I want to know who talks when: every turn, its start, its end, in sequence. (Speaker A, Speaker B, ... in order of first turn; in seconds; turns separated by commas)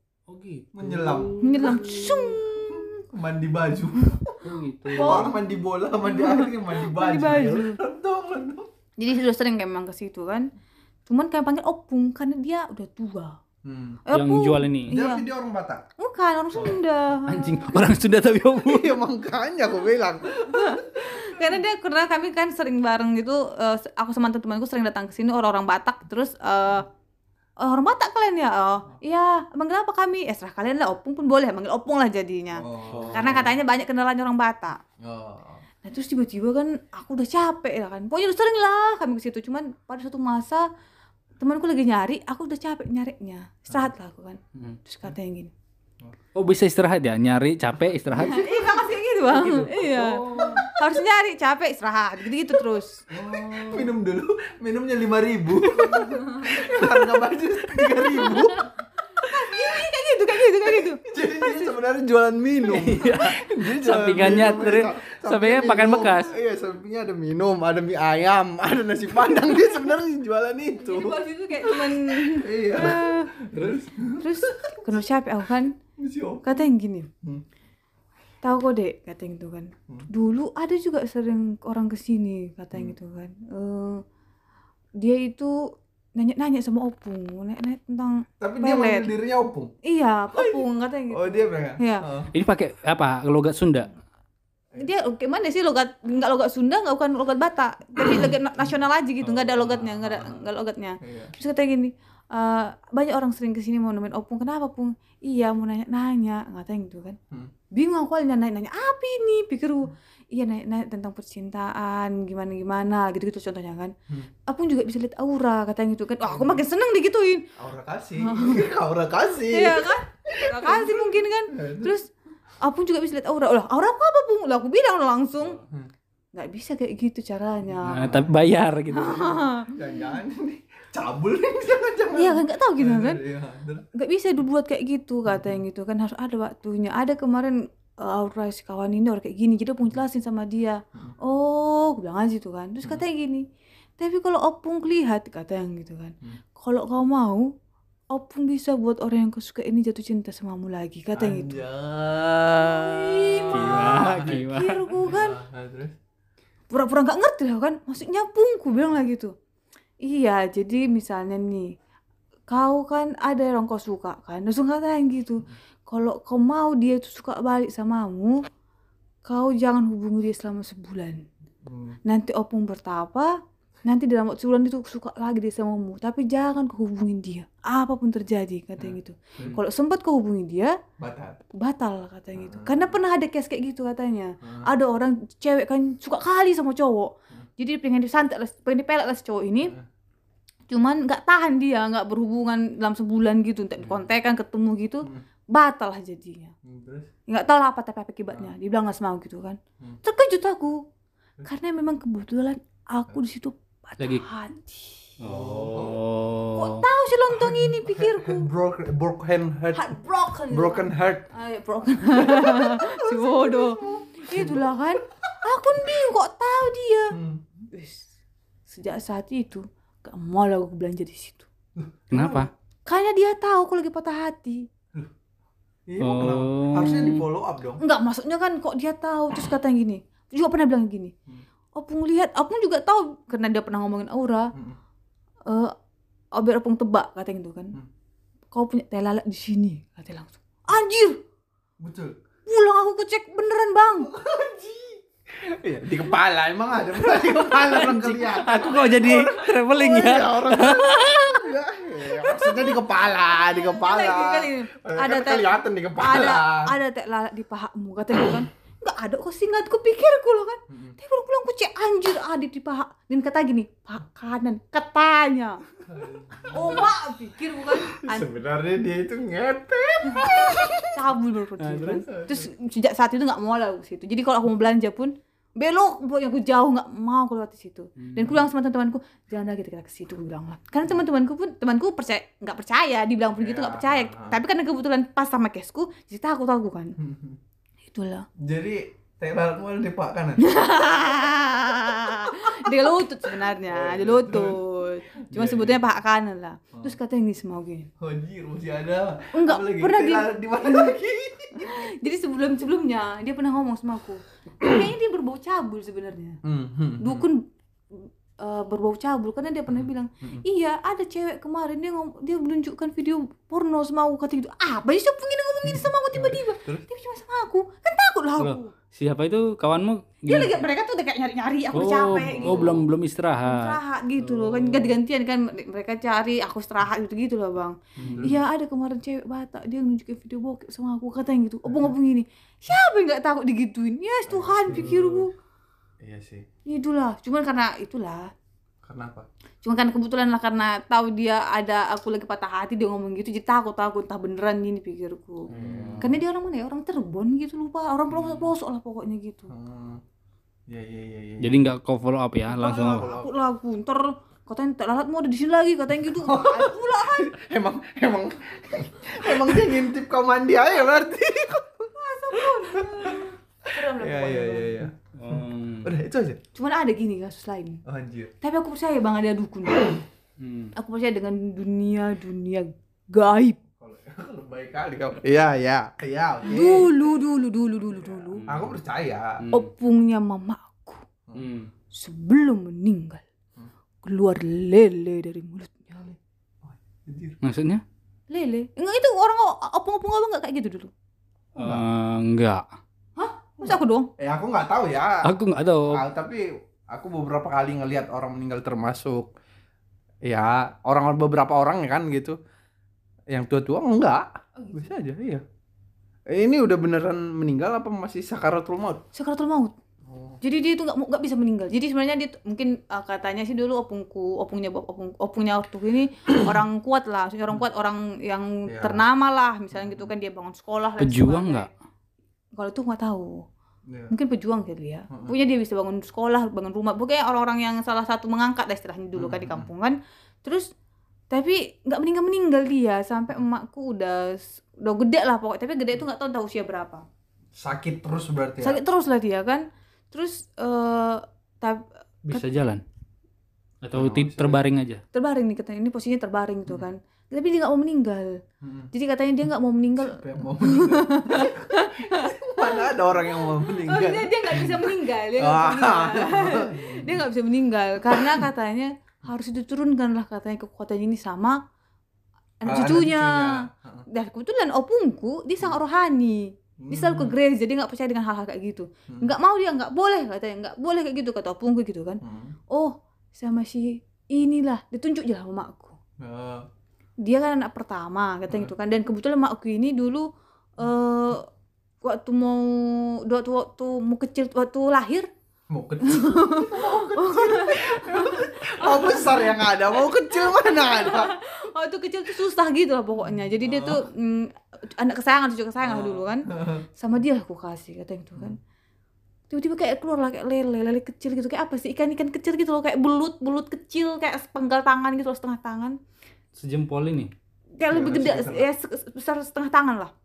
Speaker A: 0.3-2.4, Speaker B: 0.7-1.9, Speaker C: 1.4-3.0, Speaker B: 2.6-4.4, Speaker A: 4.4-5.3, Speaker B: 4.9-8.7, Speaker C: 5.0-5.5, Speaker C: 6.0-7.8, Speaker C: 9.0-10.5, Speaker C: 11.1-13.4, Speaker B: 13.6-14.0, Speaker C: 14.1-15.3, Speaker A: 14.1-15.0, Speaker B: 14.9-15.8, Speaker C: 16.0-17.7, Speaker A: 17.2-19.0, Speaker B: 18.6-21.4, Speaker C: 20.4-26.9, Speaker C: 27.6-34.8, Speaker B: 32.6-33.6, Speaker B: 35.0-35.6, Speaker C: 35.8-40.7, Speaker C: 41.4-45.5, Speaker A: 46.3-48.6, Speaker C: 48.2-53.0, Speaker A: 49.3-50.7, Speaker B: 50.4-50.7, Speaker A: 53.1-53.9, Speaker B: 53.1-58.7, Speaker C: 55.9-56.8, Speaker C: 58.1-58.6, Speaker C: 59.2-61.7, Speaker B: 59.5-59.8, Speaker B: 60.7-75.1, Speaker A: 62.7-66.3, Speaker C: 70.8-73.3, Speaker C: 74.2-75.8, Speaker B: 76.0-76.7, Speaker C: 76.4-77.1, Speaker C: 78.4-84.0, Speaker C: 85.0-89.1, Speaker B: 88.4-89.7, Speaker C: 89.8-92.0, Speaker B: 90.3-92.3, Speaker A: 92.3-93.9, Speaker C: 94.8-107.2, Speaker B: 99.2-100.4, Speaker B: 101.0-101.3, Speaker C: 107.7-113.9, Speaker C: 114.5-117.5, Speaker B: 116.2-116.6, Speaker B: 117.6-121.9, Speaker C: 118.2-118.7, Speaker C: 119.5-122.1, Speaker C: 122.6-125.6, Speaker B: 125.4-125.9, Speaker C: 126.3-128.2, Speaker B: 127.7-128.3, Speaker A: 127.8-129.5, Speaker C: 128.9-129.8, Speaker B: 129.7-133.9, Speaker C: 132.2-133.2, Speaker C: 133.9-143.5, Speaker B: 135.3-135.6, Speaker C: 144.0-147.5, Speaker C: 148.1-151.6, Speaker B: 151.1-156.0, Speaker C: 152.6-155.4, Speaker A: 153.5-154.9, Speaker C: 156.7-159.3, Speaker C: 160.0-161.8, Speaker C: 162.5-168.4, Speaker C: 169.2-171.2, Speaker B: 171.7-172.0, Speaker C: 172.1-180.8, Speaker B: 178.8-179.6, Speaker B: 181.0-181.4, Speaker C: 181.5-189.8, Speaker B: 182.4-182.9, Speaker B: 184.4-184.7, Speaker C: 190.7-196.5, Speaker B: 196.7-197.1, Speaker C: 197.3-200.8, Speaker C: 201.4-205.2, Speaker A: 204.0-204.2, Speaker A: 205.2-206.8, Speaker B: 205.2-206.0, Speaker C: 206.6-208.5, Speaker B: 207.3-209.9, Speaker C: 209.7-217.2, Speaker B: 210.5-211.3, Speaker B: 212.2-215.3, Speaker B: 217.1-217.7, Speaker C: 217.7-218.1, Speaker C: 218.7-221.5, Speaker B: 221.8-222.5, Speaker A: 222.1-222.5, Speaker C: 222.9-224.7, Speaker B: 225.9-227.8, Speaker A: 226.0-227.2, Speaker C: 227.8-231.1, Speaker C: 231.8-234.5, Speaker C: 235.5-235.7, Speaker C: 236.3-237.8, Speaker C: 238.5-241.2, Speaker B: 241.8-242.2, Speaker C: 242.5-244.1, Speaker B: 244.1-256.7, Speaker A: 247.5-251.2, Speaker C: 250.0-265.6, Speaker B: 260.7-261.0, Speaker B: 265.8-266.9, Speaker C: 266.5-268.3, Speaker B: 267.9-271.1, Speaker C: 270.8-287.0, Speaker A: 271.6-272.1, Speaker B: 272.1-272.5, Speaker A: 278.0-278.4, Speaker B: 283.4-284.4, Speaker B: 287.0-287.4, Speaker C: 287.9-288.3, Speaker B: 288.4-290.4, Speaker C: 290.4-297.9, Speaker B: 292.2-292.7, Speaker B: 293.6-294.6, Speaker B: 295.3-295.8, Speaker B: 298.0-301.9, Speaker C: 299.4-300.9, Speaker C: 301.6-306.4, Speaker B: 306.4-307.3, Speaker C: 307.0-318.7, Speaker B: 309.7-310.4, Speaker B: 315.7-316.8, Speaker A: 318.4-320.6, Speaker C: 320.3-322.8, Speaker A: 321.7-324.9, Speaker B: 322.1-322.8, Speaker C: 323.5-335.3, Speaker B: 328.0-328.4, Speaker A: 328.0-328.4, Speaker B: 331.7-331.9, Speaker B: 334.3-335.2, Speaker A: 334.7-335.1, Speaker B: 336.0-336.5, Speaker C: 336.7-338.3, Speaker B: 338.8-339.3, Speaker C: 339.6-349.5, Speaker B: 345.5-346.2, Speaker A: 345.5-346.1, Speaker B: 348.1-348.5, Speaker B: 349.5-350.0, Speaker B: 350.7-351.7, Speaker A: 351.4-353.1, Speaker B: 352.6-353.3, Speaker C: 352.6-357.4, Speaker B: 356.2-366.4, Speaker C: 362.0-364.8, Speaker A: 365.1-365.9, Speaker C: 366.6-367.8, Speaker B: 367.9-368.3, Speaker C: 368.4-370.0, Speaker A: 370.4-370.7, Speaker C: 370.8-373.6, Speaker B: 373.8-376.9, Speaker C: 376.5-378.4, Speaker B: 377.9-379.4, Speaker A: 378.3-378.8, Speaker A: 379.4-379.7, Speaker C: 379.5-381.1, Speaker A: 381.4-381.7, Speaker C: 381.9-383.2, Speaker C: 384.0-386.2, Speaker B: 386.6-387.4, Speaker A: 387.4-387.8, Speaker C: 388.3-390.9, Speaker A: 391.6-392.6, Speaker B: 391.6-391.9, Speaker C: 393.2-394.1, Speaker B: 393.6-395.3, Speaker A: 395.2-396.0, Speaker B: 395.9-399.3, Speaker B: 400.2-402.4, Speaker B: 403.3-405.4, Speaker C: 404.6-405.0, Speaker B: 406.3-409.0, Speaker C: 409.1-409.7, Speaker B: 410.1-410.4, Speaker C: 410.4-421.7, Speaker B: 418.7-419.0, Speaker B: 419.7-420.1, Speaker A: 421.0-421.7, Speaker C: 422.6-423.5, Speaker B: 423.9-424.1, Speaker C: 424.1-430.7, Speaker B: 425.1-425.4, Speaker B: 429.2-429.7, Speaker C: 431.3-437.1, Speaker B: 437.6-438.8, Speaker C: 438.6-442.4, Speaker A: 442.3-442.8, Speaker A: 443.8-445.0, Speaker B: 443.9-444.6, Speaker C: 445.1-448.4, Speaker B: 448.6-448.9, Speaker C: 448.9-461.6, Speaker B: 450.0-457.3, Speaker B: 458.1-458.5, Speaker C: 462.6-476.0, Speaker B: 462.6-464.1, Speaker B: 466.8-467.4, Speaker B: 469.1-469.4, Speaker B: 472.2-472.6, Speaker B: 476.2-476.7, Speaker C: 477.2-481.5, Speaker C: 482.0-485.3, Speaker B: 485.7-491.3, Speaker C: 486.0-498.6, Speaker B: 493.5-494.0, Speaker B: 495.8-496.9, Speaker C: 499.5-506.0, Speaker A: 506.6-507.3, Speaker C: 507.8-510.1, Speaker B: 507.9-508.7